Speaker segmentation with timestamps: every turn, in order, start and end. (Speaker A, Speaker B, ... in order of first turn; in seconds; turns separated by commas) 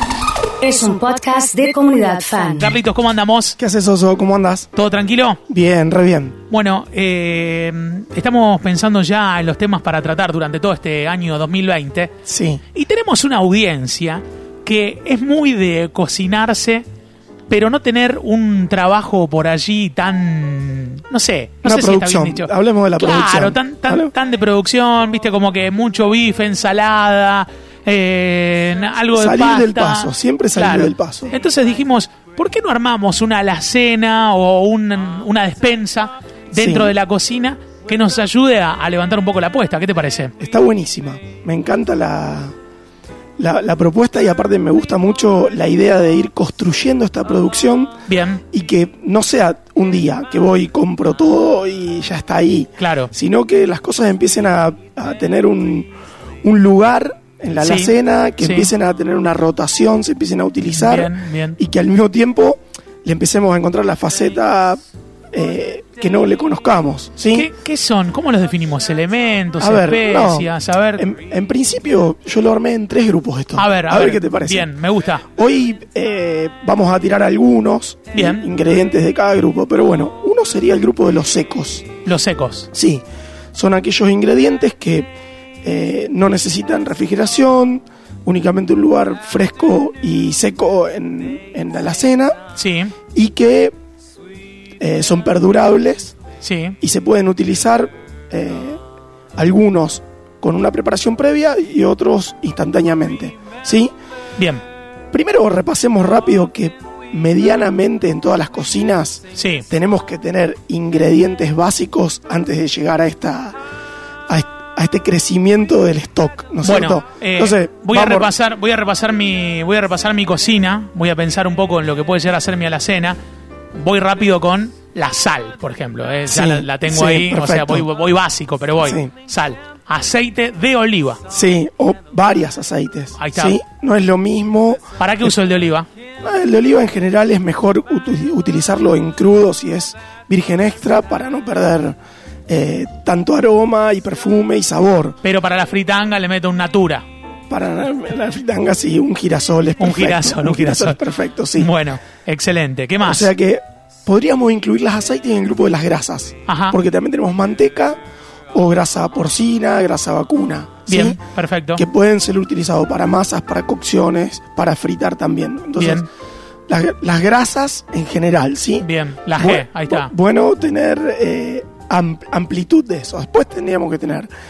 Speaker A: 0.6-2.8, Speaker B: 2.7-3.5, Speaker C: 3.6-4.7, Speaker B: 4.8-5.4, Speaker C: 5.5-6.4, Speaker B: 6.5-12.1, Speaker C: 12.2-12.6, Speaker B: 12.7-16.8, Speaker B: 17.5-40.3, Speaker C: 21.6-24.1, Speaker C: 29.1-31.4, Speaker C: 36.5-37.0, Speaker C: 40.4-42.5, Speaker C: 43.4-48.0, Speaker C: 48.5-55.9, Speaker C: 56.4-64.8, Speaker B: 57.6-57.9, Speaker B: 58.4-58.7, Speaker B: 60.8-61.6, Speaker C: 65.3-67.5, Speaker B: 67.3-71.0, Speaker C: 69.6-81.9, Speaker B: 73.6-75.1, Speaker B: 78.2-78.5, Speaker B: 82.1-82.7, Speaker C: 82.7-85.1, Speaker C: 85.6-92.4, Speaker C: 93.1-93.7, Speaker C: 94.8-96.2, Speaker C: 96.8-98.8, Speaker C: 99.4-103.9, Speaker C: 105.1-113.6, Speaker C: 114.3-118.3, Speaker B: 116.6-123.2, Speaker B: 123.8-131.2, Speaker C: 126.3-127.9, Speaker C: 128.8-129.1, Speaker C: 131.3-135.4, Speaker B: 133.2-133.6, Speaker B: 135.0-135.9, Speaker C: 136.2-145.2, Speaker B: 145.2-147.0, Speaker C: 147.5-151.8, Speaker B: 149.8-151.0, Speaker B: 151.6-153.3, Speaker C: 153.0-158.0, Speaker C: 158.5-161.2, Speaker B: 160.9-161.8, Speaker C: 161.8-166.1, Speaker C: 166.7-174.3, Speaker B: 168.8-170.1